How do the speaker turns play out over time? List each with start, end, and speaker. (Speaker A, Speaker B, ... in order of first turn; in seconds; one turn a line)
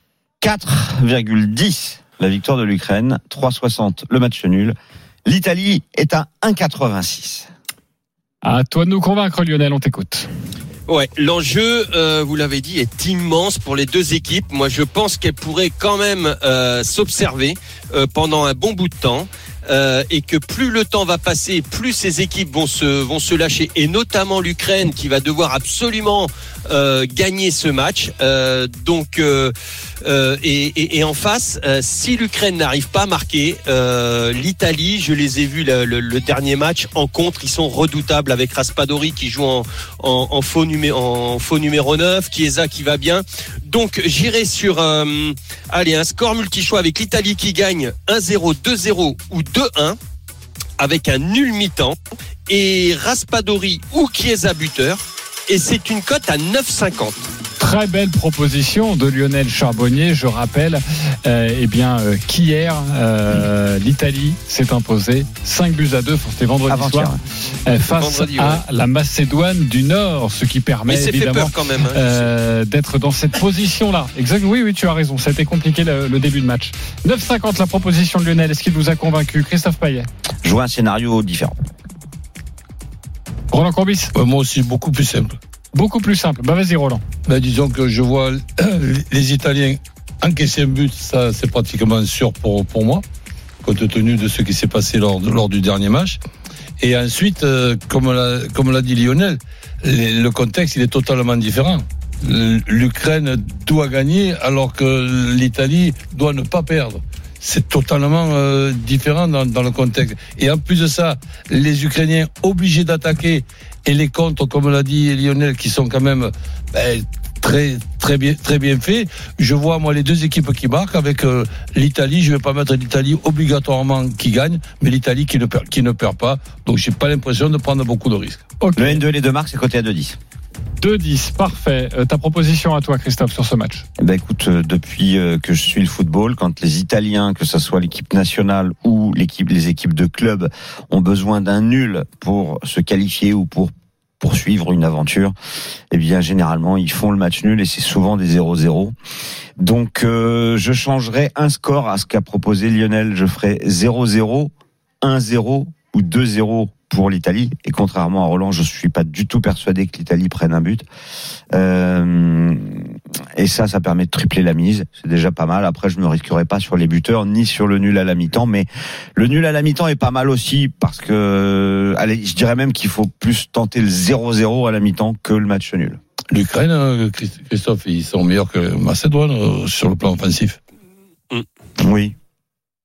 Speaker A: 0.4-7.5
Speaker B: 8.4-10.3
Speaker C: 10.9-50.0
Speaker C: 50.8-52.0
Speaker C: 52.5-57.3
Speaker B: 57.6-67.1
Speaker A: 66.7-67.2
Speaker B: 67.7-80.1
Speaker C: 67.9-68.6
Speaker C: 70.9-72.3
Speaker A: 80.4-81.5
Speaker B: 83.5-84.1
Speaker D: 84.1-85.4
Speaker B: 85.7-87.0
Speaker D: 87.3-93.0
Speaker D: 93.6-96.2
Speaker D: 96.8-128.4
Speaker B: 128.6-129.0
Speaker A: 128.8-130.2
Speaker B: 130.8-133.8
Speaker A: 134.0-145.3
Speaker A: 145.9-148.9
Speaker A: 149.6-160.8
Speaker A: 161.5-176.0
Speaker D: 176.3-180.6
Speaker A: 181.8-182.1